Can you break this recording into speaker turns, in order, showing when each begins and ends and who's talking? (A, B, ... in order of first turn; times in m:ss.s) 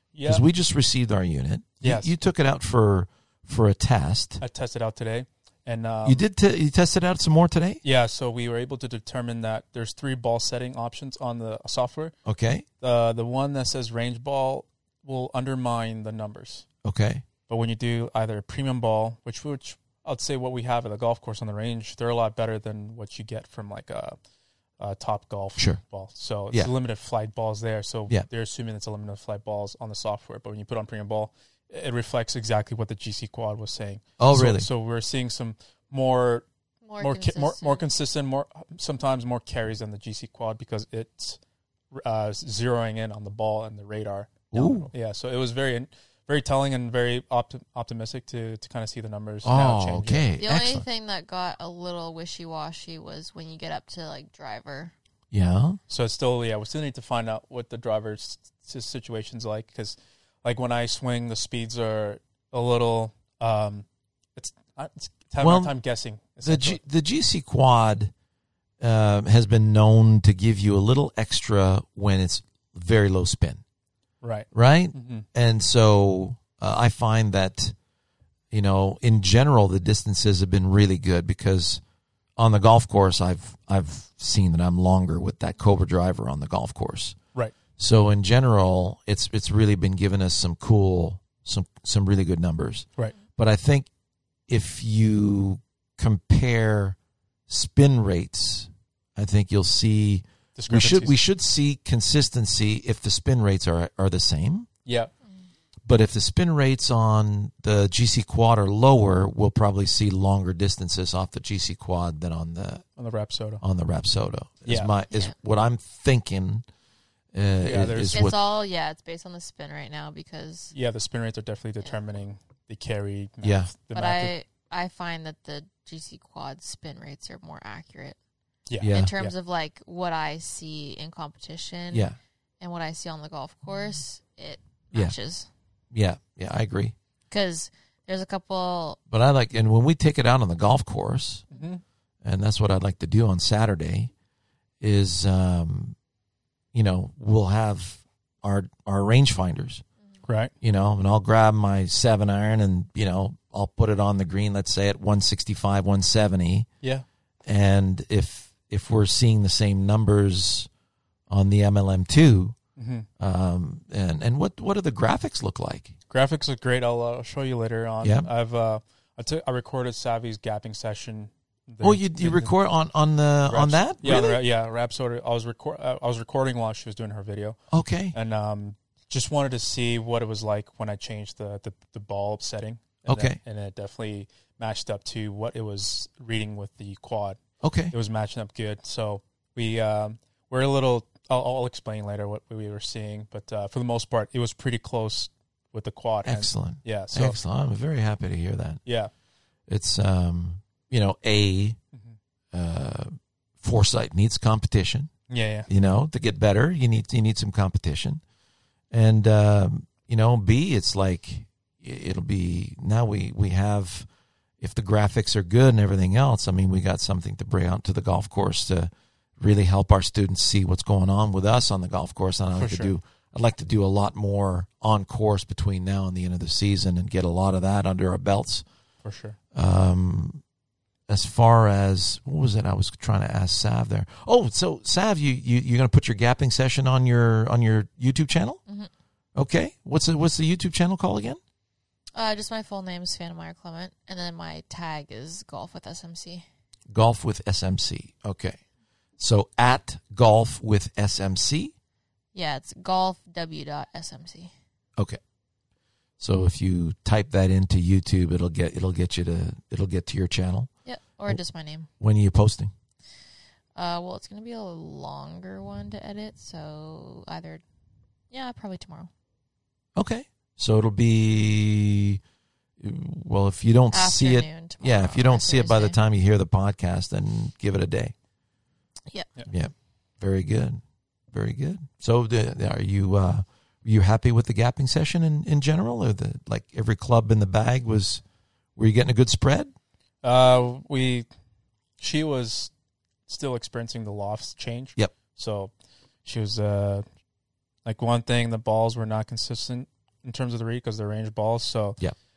0:00.2-0:00.4 A
0:00.2-0:04.4 B
0:01.8-0:02.1 A
0:04.4-0:06.2 A
0:06.0-0:07.8 B
0:07.8-0:12.1 A
0:12.2-0:12.7 B
0:12.8-0:16.7 A
0:16.8-0:17.2 B
0:17.5-0:24.2 A
0:24.8-0:36.5 A
0:34.2-0:34.7 B
0:36.8-0:37.8 C
0:37.0-0:41.4 A
0:41.9-0:50.3 A
0:44.5-0:44.9 B
0:49.4-0:50.8 B
0:50.4-0:54.9 C
0:55.3-0:55.8 B
0:55.9-1:03.9 A
1:04.4-1:06.8 A
1:05.4-1:05.8 B
1:06.4-1:08.1 B
1:08.8-1:13.6 B
1:14.2-1:15.3 A
1:14.5-1:17.8 B
1:18.5-1:21.8 B
1:22.4-1:27.2 B
1:27.8-1:33.9 B
1:34.5-1:37.0 B
1:37.5-1:44.7 B
1:40.6-1:41.2 A
1:44.9-1:45.1 A
1:45.9-1:52.8 B
1:53.0-1:53.6 A
1:53.6-1:56.6 B
1:54.7-1:54.9 A
1:57.3-1:58.4 B
1:57.6-1:58.3 A
1:58.1-2:00.7 C
2:00.7-2:04.3 A
2:03.4-2:03.7 B
2:03.9-2:08.2 C
2:08.7-2:09.3 A
2:08.8-2:09.1 B
2:08.9-2:12.1 C
2:11.9-2:12.2 B
2:12.6-2:15.5 C
2:15.9-2:16.9 B
2:17.3-2:19.0 C
2:19.1-2:21.5 B
2:21.5-2:21.8 A
2:22.2-2:24.1 B
2:24.8-2:26.0 B
2:26.7-2:29.8 B
2:30.2-2:30.5 A
2:30.6-2:36.7 B
2:37.5-2:40.7 B
2:41.3-2:42.6 B
2:42.8-2:43.1 A
2:43.2-2:46.0 B
2:46.1-2:52.5 A
2:48.0-2:48.3 B
2:51.8-2:54.4 B
2:53.5-2:57.6 A
2:57.7-2:58.2 B
2:58.1-3:07.4 A
3:03.1-3:03.4 B
3:07.6-3:08.0 B
3:07.9-3:17.4 A
3:16.2-3:18.8 B
3:18.9-3:19.1 A
3:19.7-3:21.8 B
3:22.5-3:25.1 B
3:25.3-3:25.7 A
3:25.7-3:28.2 B
3:28.9-3:34.1 B
3:34.6-3:48.6 B
3:42.6-3:42.9 A
3:49.0-3:49.4 A
3:49.5-3:50.4 B
3:51.1-3:58.6 B
3:59.4-4:01.4 B
4:02.2-4:06.4 C
4:06.9-4:08.6 B
4:09.2-4:11.7 B
4:12.3-4:14.5 C
4:16.2-4:20.7 B
4:20.9-4:21.9 C
4:22.0-4:22.7 B
4:23.8-4:27.6 C
4:28.3-4:29.1 C
4:30.0-4:32.2 B
4:32.8-4:38.1 B
4:33.9-4:36.0 C
4:39.5-4:48.2 B
4:48.8-4:49.7 B
4:50.2-4:51.3 A
4:52.0-4:52.7 A
4:53.3-4:55.7 A
4:56.2-4:57.0 A
4:57.8-5:02.0 A